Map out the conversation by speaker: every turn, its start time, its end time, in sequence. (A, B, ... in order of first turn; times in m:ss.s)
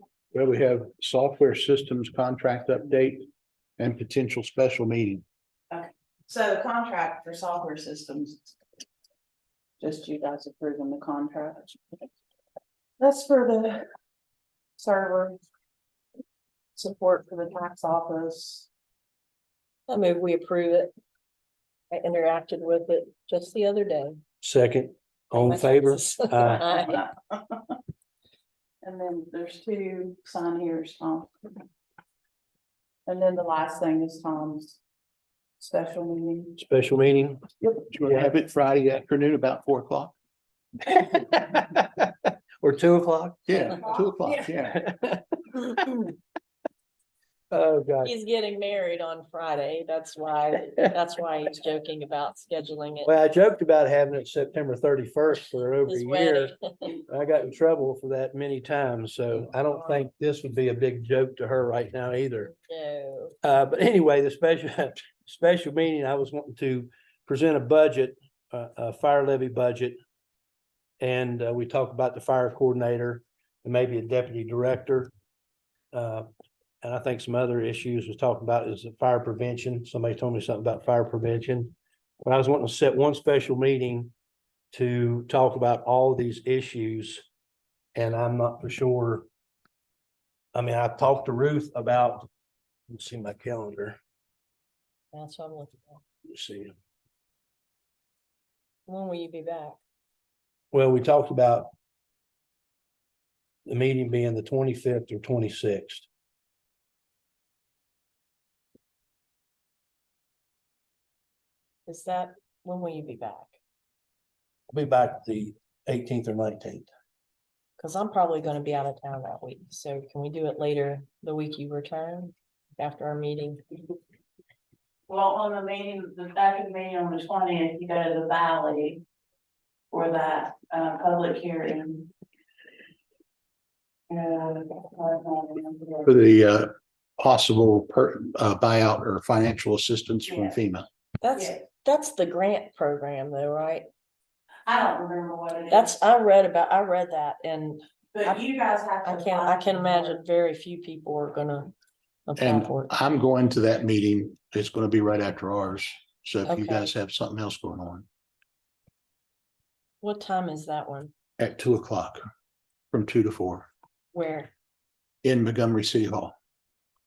0:00.3-0:03.2 A
0:03.8-0:05.2 A
0:05.7-0:08.5 B
0:09.8-0:12.1 B
0:13.0-0:13.8 B
0:14.8-0:15.4 B
0:16.8-0:18.7 B
0:19.9-0:20.9 C
0:21.9-0:24.2 C
0:24.4-0:26.6 D
0:25.4-0:27.0 C
0:26.4-0:27.8 B
0:28.8-0:31.5 B
0:33.0-0:34.8 B
0:35.6-0:36.6 B
0:36.6-0:37.5 D
0:37.9-0:40.1 A
0:40.8-0:43.5 D
0:43.5-0:44.8 A
0:43.5-0:44.5 B
0:44.6-0:46.1 D
0:47.5-0:48.1 D
0:48.0-0:53.1 C
0:53.0-0:56.5 D
0:55.8-0:57.0 C
0:57.0-1:02.5 D
0:59.7-1:00.0 C
1:02.5-1:03.4 C
1:03.4-1:10.0 D
1:11.0-1:15.1 D
1:15.9-1:16.3 D
1:16.8-1:24.1 D
1:24.7-1:27.2 D
1:27.9-1:29.2 D
1:30.5-1:32.3 D
1:32.9-1:34.0 D
1:35.1-1:36.0 C
1:36.3-1:36.7 D
1:38.9-1:39.8 C
1:40.7-1:41.7 D
1:43.6-1:46.1 D
1:51.9-1:53.5 C
1:54.7-1:56.9 D
1:57.8-2:03.6 C
2:05.1-2:09.0 B
2:09.9-2:12.1 B
2:14.1-2:16.1 B
2:16.0-2:20.9 A
2:20.3-2:20.6 B
2:21.2-2:23.9 C
2:24.6-2:26.0 B
2:25.7-2:28.4 C
2:28.1-2:30.2 B
2:29.0-2:31.7 C
2:32.3-2:32.9 C
2:32.4-2:38.0 A
2:36.5-2:36.9 C
2:40.0-2:41.1 C
2:41.4-2:42.2 A
2:42.9-2:43.7 A
2:44.1-2:44.5 C
2:45.2-2:46.3 A